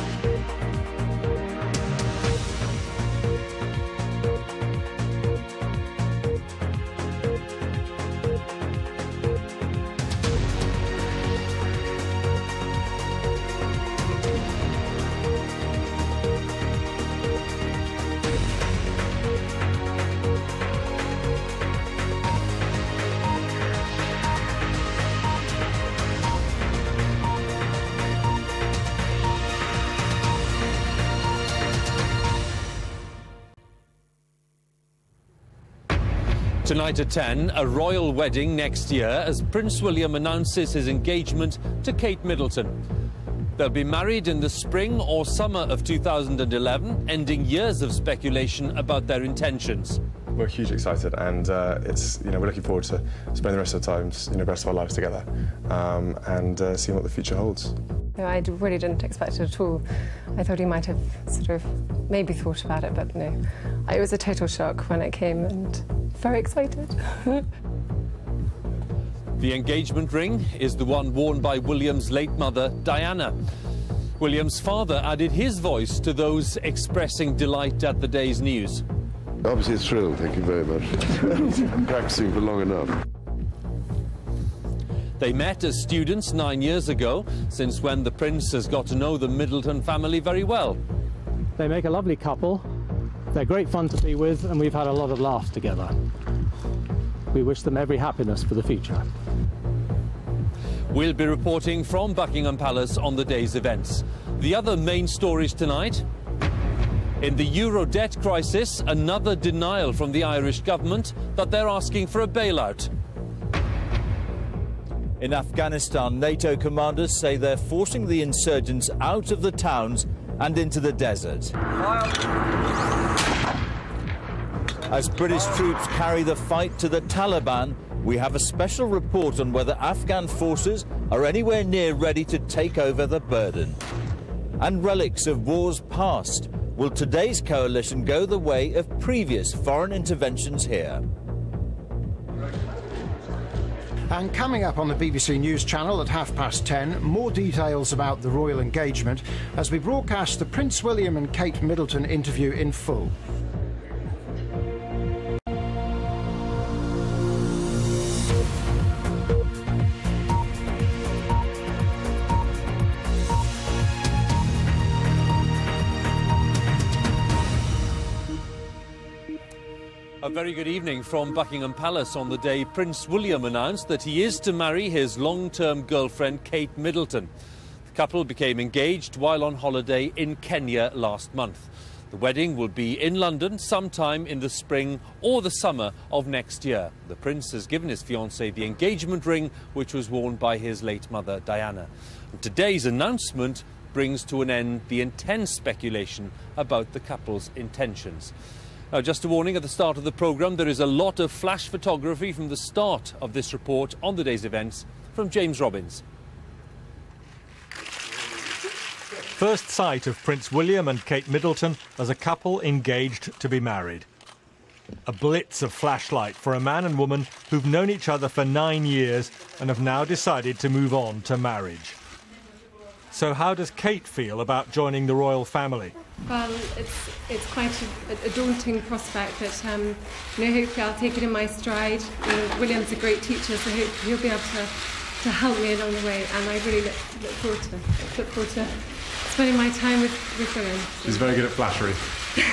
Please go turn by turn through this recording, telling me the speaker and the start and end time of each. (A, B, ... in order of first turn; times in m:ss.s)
0:36.6-0:42.7 A
0:43.6-0:50.0 A
0:50.3-0:57.8 B
0:58.2-1:07.4 C
1:09.4-1:13.3 A
1:14.2-1:18.8 A
1:19.4-1:22.9 D
1:25.2-1:30.8 A
1:31.6-1:32.7 E
1:33.3-1:35.9 E
1:37.3-1:39.1 E
1:40.9-1:46.0 A
1:47.2-1:52.9 A
1:55.2-2:01.5 F
2:04.9-2:13.8 F
2:14.6-2:21.0 F
2:24.1-2:33.1 G
2:50.2-2:57.3 A
2:57.9-3:18.3 A
3:18.9-3:26.0 A
3:29.3-3:34.0 H
3:35.0-3:42.0 H
3:43.1-3:45.9 H
3:46.2-4:01.4 C
4:01.0-4:02.2 B